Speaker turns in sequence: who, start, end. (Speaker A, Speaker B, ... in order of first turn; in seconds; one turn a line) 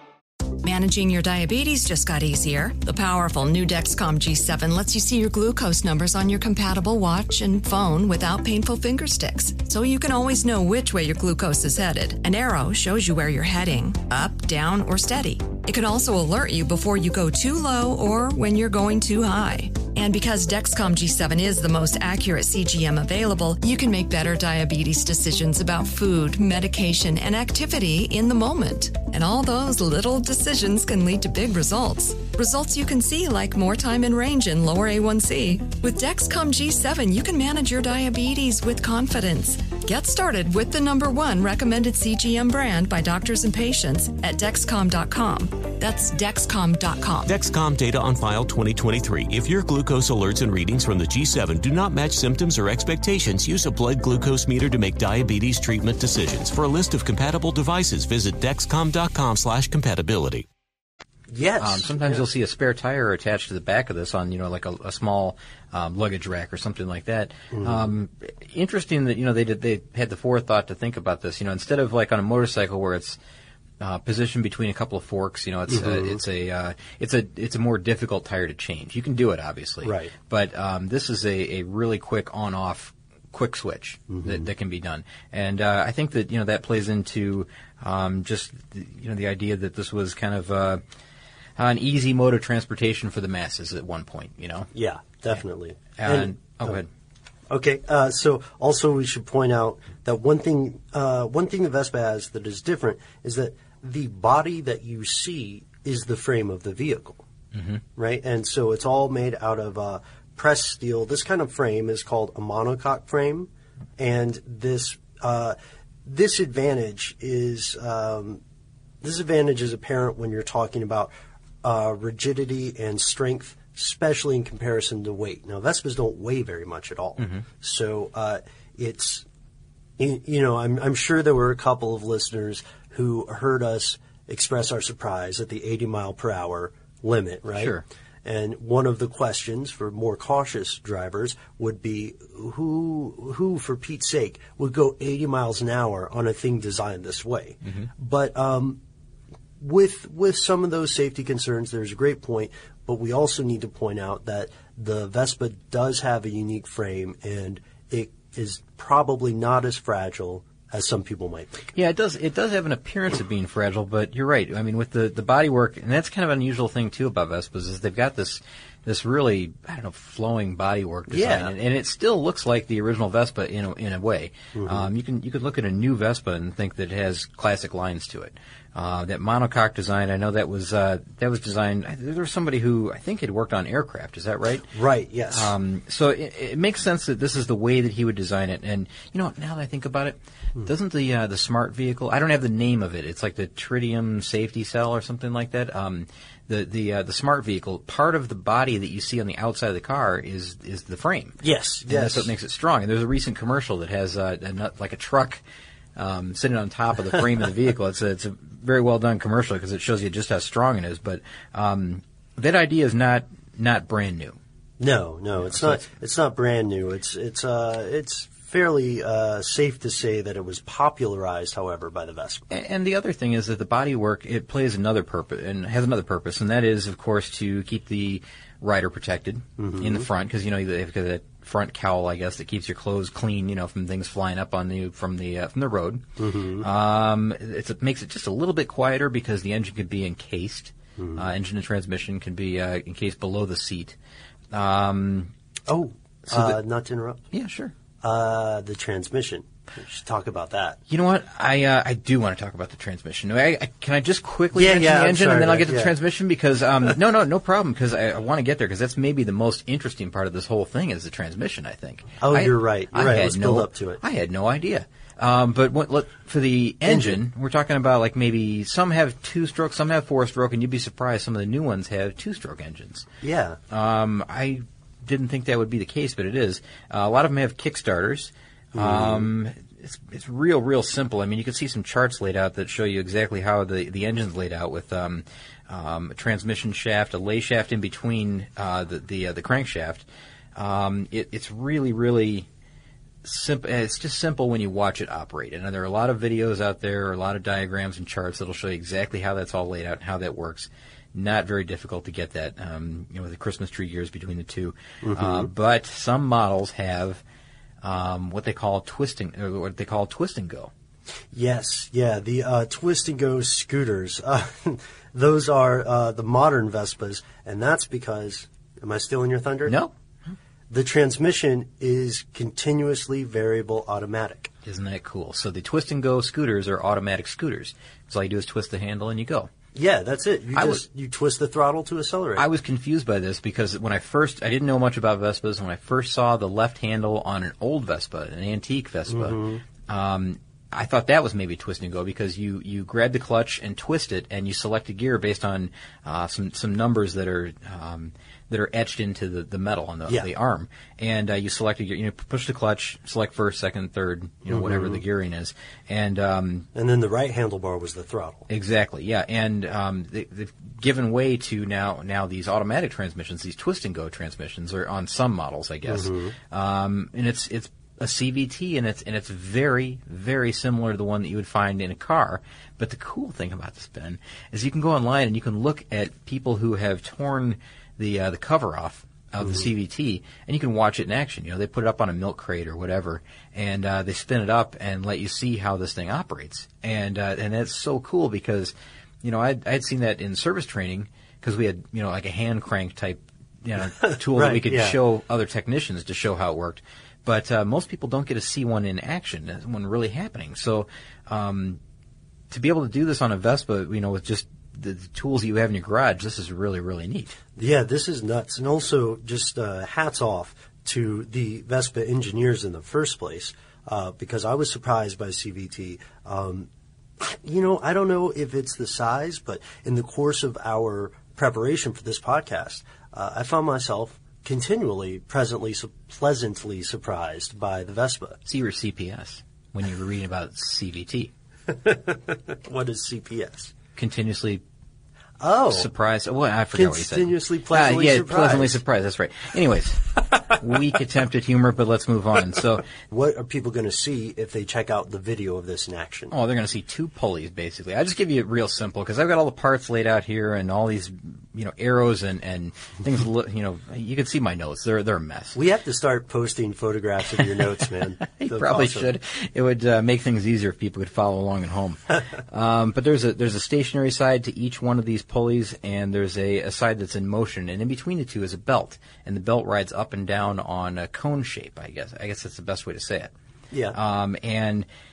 Speaker A: 0.6-47.3
Speaker B: 47.2-60.5
Speaker C: 61.3-62.2
Speaker D: 61.6-73.2
Speaker C: 67.5-67.9
Speaker D: 73.8-90.8
Speaker C: 75.7-76.2
Speaker C: 79.8-80.1
Speaker C: 84.1-84.5
Speaker D: 91.6-94.7
Speaker C: 94.7-96.8
Speaker D: 96.0-96.9
Speaker C: 97.5-107.2
Speaker D: 107.5-107.8
Speaker C: 108.0-118.4
Speaker C: 119.0-121.1
Speaker C: 121.6-129.2
Speaker C: 130.0-148.8
Speaker D: 137.6-137.8
Speaker D: 147.6-147.9
Speaker C: 149.6-161.7
Speaker D: 161.7-184.7
Speaker C: 171.1-171.5
Speaker C: 174.5-174.9
Speaker C: 184.7-185.5
Speaker D: 185.3-205.4
Speaker C: 201.4-202.3
Speaker D: 205.9-214.4
Speaker C: 214.8-222.4
Speaker D: 215.4-215.8
Speaker D: 222.5-236.0
Speaker C: 229.6-230.1
Speaker C: 236.2-236.7
Speaker D: 236.6-243.9
Speaker C: 241.0-241.3
Speaker D: 244.5-245.3
Speaker C: 245.7-247.2
Speaker D: 246.3-246.6
Speaker D: 247.3-247.7
Speaker C: 248.0-250.8
Speaker D: 250.9-273.1
Speaker C: 254.5-255.9
Speaker C: 262.2-264.0
Speaker C: 266.8-267.2
Speaker C: 273.2-273.6
Speaker D: 273.7-290.0
Speaker C: 278.7-279.3
Speaker D: 290.6-292.5
Speaker D: 293.2-307.2
Speaker C: 305.0-305.5
Speaker D: 307.8-310.7
Speaker C: 311.3-319.8
Speaker D: 319.6-319.9
Speaker C: 320.7-324.5
Speaker D: 324.6-329.5
Speaker C: 329.7-332.4
Speaker D: 330.5-330.8
Speaker D: 332.4-356.7
Speaker C: 339.1-339.6
Speaker C: 354.5-355.0
Speaker C: 356.7-358.4
Speaker D: 358.5-401.8
Speaker C: 365.9-366.3
Speaker C: 379.4-379.6
Speaker C: 394.0-395.0
Speaker D: 402.5-407.4
Speaker C: 407.6-428.4
Speaker D: 428.4-431.3
Speaker C: 431.7-433.7
Speaker D: 433.9-434.6
Speaker C: 435.4-435.9
Speaker D: 435.7-442.9
Speaker C: 436.7-438.8
Speaker C: 443.0-446.3
Speaker D: 446.3-455.6
Speaker C: 455.5-459.1
Speaker D: 458.3-473.3
Speaker D: 473.9-474.9